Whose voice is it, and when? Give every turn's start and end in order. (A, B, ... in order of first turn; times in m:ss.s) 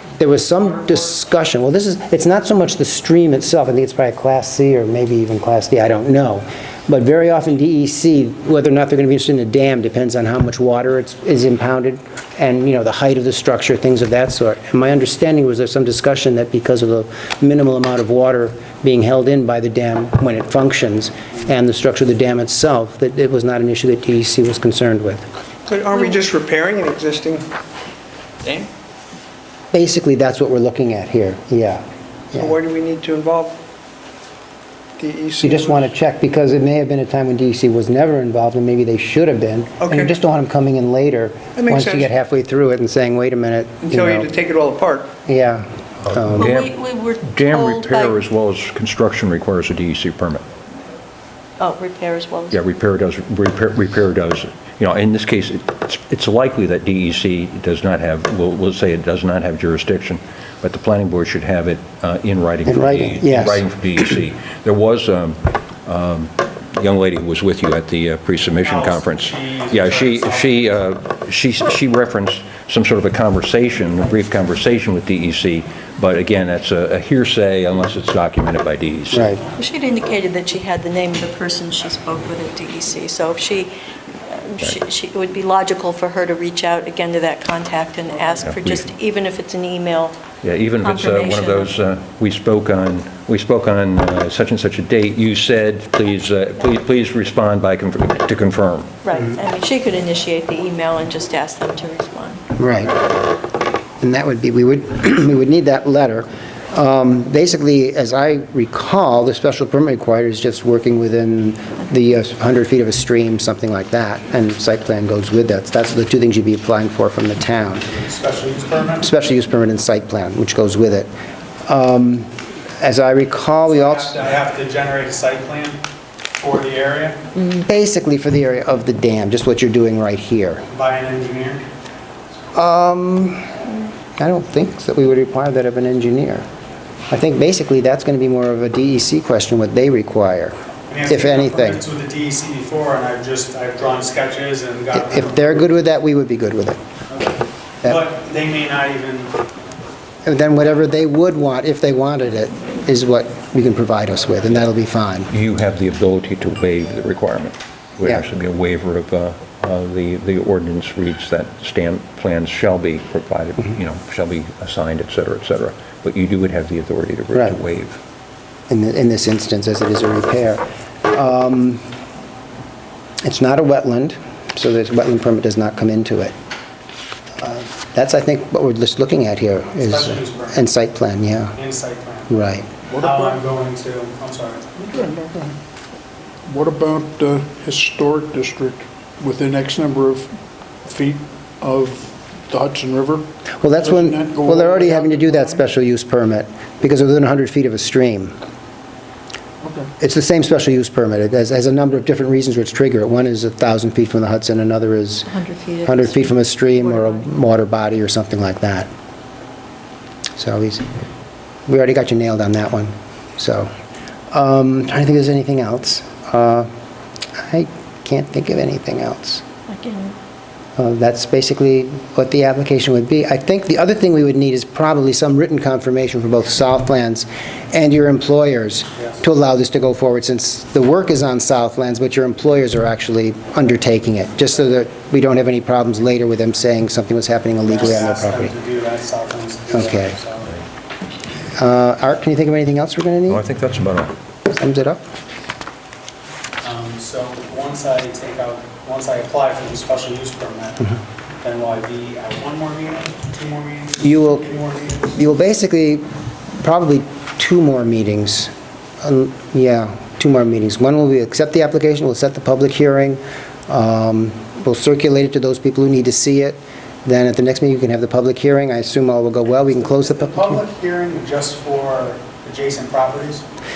0:00.2-0:25.3 A
0:25.7-0:27.5 B
0:28.4-0:28.7 B
0:29.7-0:32.5 A
0:32.3-0:33.6 B
0:35.0-0:35.9 B
0:35.4-0:44.3 A
0:39.8-0:40.2 B
0:41.6-0:42.1 B
0:43.8-0:45.1 B
0:45.3-0:46.6 A
0:46.1-0:50.4 C
0:46.4-0:48.2 D
0:51.6-0:52.6 D
0:52.5-1:19.4 C
1:02.7-1:03.6 A
1:08.6-1:10.8 E
1:19.1-1:19.4 A
1:19.6-1:23.7 D
1:24.3-1:30.2 D
1:28.4-1:28.9 C
1:30.4-1:39.0 C
1:30.8-1:31.7 D
1:39.0-1:42.4 D
1:42.6-1:43.0 A
1:44.0-1:57.9 A
1:57.9-1:59.1 E
1:59.0-2:01.1 A
2:01.7-2:04.2 A
2:03.7-2:05.8 E
2:06.4-2:07.2 E
2:07.5-2:10.7 A
2:10.7-2:11.6 E
2:12.5-2:13.6 A
2:14.2-2:16.5 A
2:17.1-2:20.6 A
2:20.9-2:25.6 E
2:21.1-2:21.8 A
2:24.9-2:26.8 A
2:27.1-2:29.3 E
2:30.2-2:35.3 A
2:35.3-2:48.0 C
2:48.7-2:51.8 A
2:53.2-2:56.3 A
2:57.4-3:01.6 A
2:59.8-3:00.7 E
3:01.6-3:02.3 E
3:02.3-3:02.7 A
3:02.9-3:03.4 F
3:03.0-3:04.8 E
3:04.8-3:05.5 F
3:06.5-3:10.3 F
3:10.8-3:15.7 F
3:13.6-3:18.4 A
3:19.6-3:19.9 F
3:20.0-3:25.3 A
3:25.3-3:27.2 D
3:25.8-3:28.9 A
3:30.4-3:30.9 A
3:31.7-3:33.7 A
3:34.3-3:36.7 A
3:37.4-3:39.4 A
3:39.7-3:40.2 D
3:40.8-3:58.6 A
3:57.7-4:00.5 E
3:59.7-4:00.2 A
4:01.6-4:03.4 A
4:03.3-4:04.2 C
4:04.5-4:05.0 A
4:06.6-4:15.1 E
4:14.0-4:16.0 A
4:16.6-4:30.6 A
4:29.7-4:33.4 E